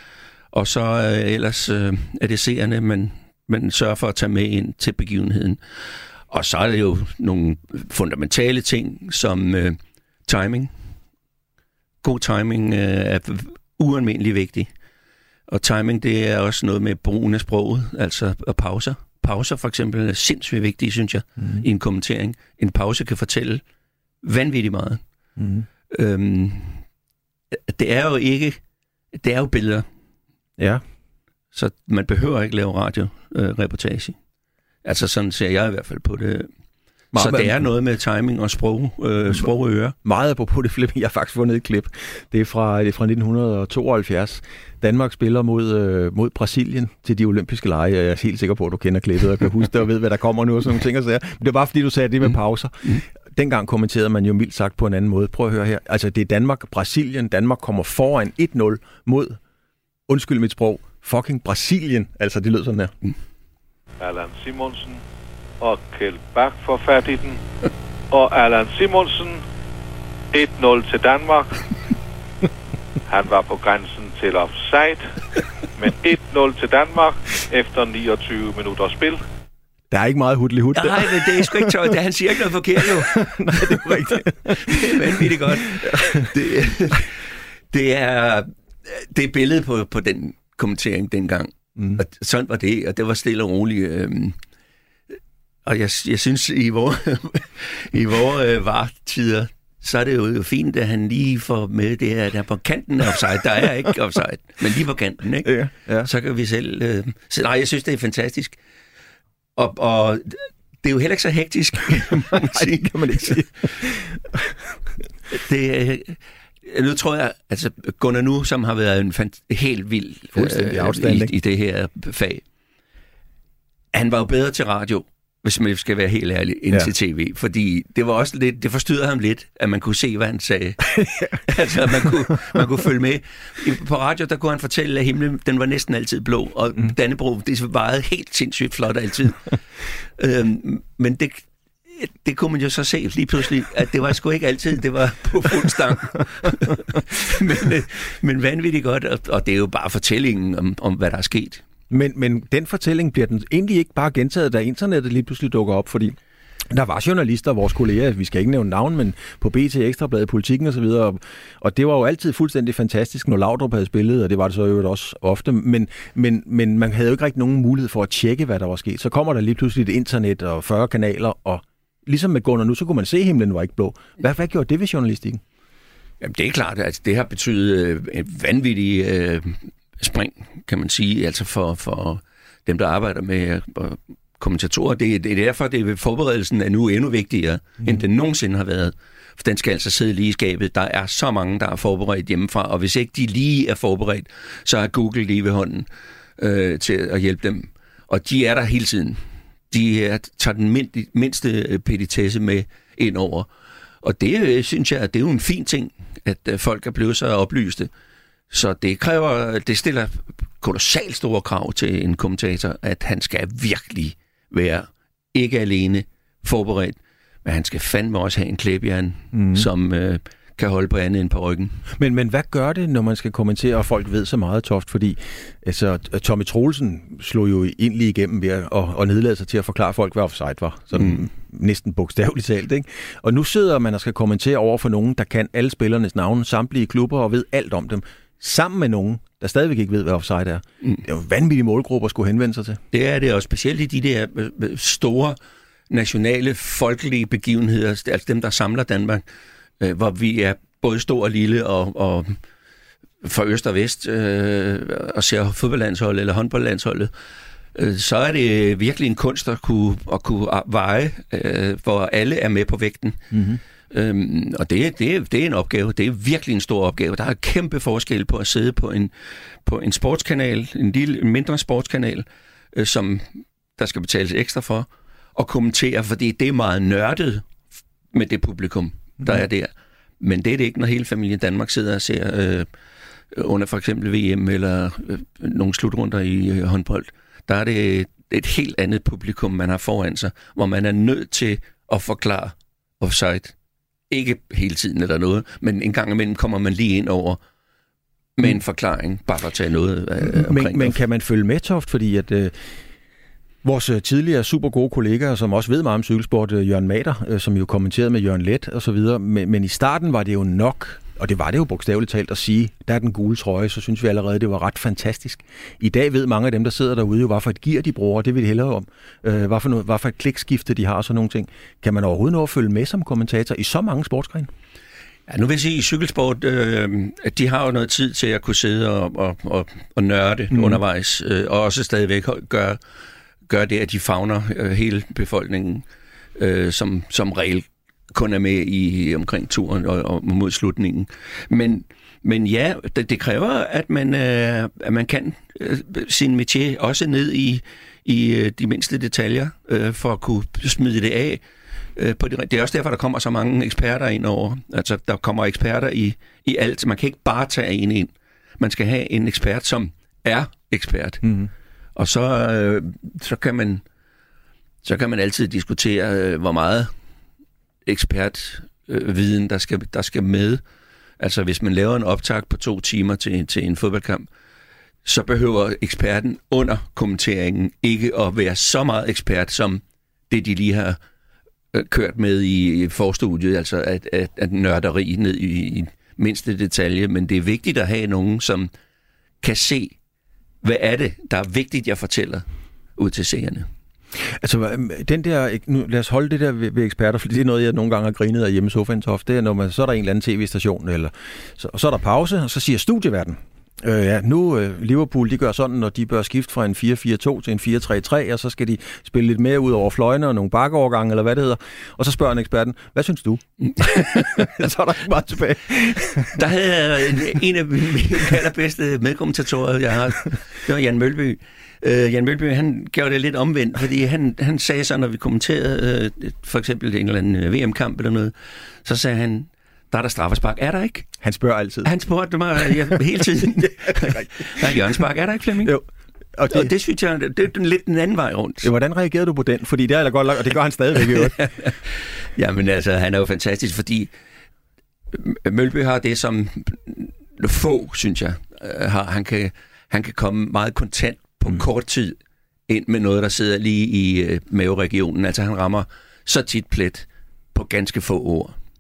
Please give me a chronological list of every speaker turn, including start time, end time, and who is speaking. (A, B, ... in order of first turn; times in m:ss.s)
0:00.5-0:05.6 A
0:06.3-0:10.7 A
0:12.0-0:14.7 A
0:15.5-0:23.6 A
0:24.2-0:25.0 A
0:25.4-0:25.6 B
0:25.9-0:26.8 A
0:27.5-0:28.6 A
0:29.1-0:29.8 A
0:30.6-0:30.8 B
0:31.5-0:34.2 A
0:34.8-0:36.5 A
0:37.1-0:37.6 B
0:37.2-0:40.0 A
0:40.0-0:59.4 B
1:00.1-1:02.9 B
1:04.0-1:05.0 C
1:05.6-1:07.4 C
1:08.1-1:09.4 C
1:10.3-1:11.7 C
1:13.0-1:15.1 C
1:15.8-1:19.2 C
1:19.9-1:21.9 B
1:20.7-1:34.4 A
1:22.8-1:26.3 B
1:35.6-1:48.6 A
1:45.4-1:46.1 B
1:49.6-1:53.4 A
1:52.3-1:54.8 B
1:55.3-2:02.4 A
2:00.3-2:01.3 B
2:03.9-2:19.6 A
2:10.9-2:12.3 B
2:20.2-2:31.6 A
2:31.9-2:36.2 B
2:36.7-2:55.4 B
2:56.2-3:15.9 A
3:16.4-3:23.5 A
3:24.0-3:27.9 A
3:28.5-3:41.8 A
3:39.3-3:39.7 B
3:41.9-4:02.8 B
4:02.9-4:05.4 A
4:05.9-4:09.2 A
4:09.8-4:12.4 A
4:13.2-4:17.1 A
4:17.7-4:23.3 A
4:23.3-4:23.6 B
4:23.9-4:29.1 A
4:29.6-4:37.5 A
4:38.1-4:42.7 A
4:43.3-4:53.5 A
4:54.1-4:57.4 A
4:58.4-5:01.0 A
5:00.2-5:02.8 B
5:03.6-5:24.5 B
5:25.3-5:32.8 A
5:30.5-5:30.8 B
5:33.5-5:35.8 A
5:36.4-5:51.4 A
5:52.0-6:01.2 A
6:01.2-6:01.5 B
6:02.0-6:03.8 A
6:04.8-6:06.9 A
6:07.8-6:10.6 A
6:11.2-6:14.3 A
6:15.0-6:21.0 A
6:21.7-6:28.7 A
6:29.4-6:30.0 A
6:30.6-6:32.4 A
6:33.0-6:33.7 A
6:34.3-6:56.4 B
6:53.6-6:54.4 A
6:56.3-7:08.3 A
7:08.8-7:11.1 A
7:11.2-7:11.9 B
7:11.8-7:15.8 A
7:13.9-7:14.8 B
7:16.4-7:16.7 B
7:16.5-7:18.7 A
7:18.6-7:21.4 B
7:21.2-7:24.1 A
7:25.1-7:32.2 A
7:32.7-7:38.6 A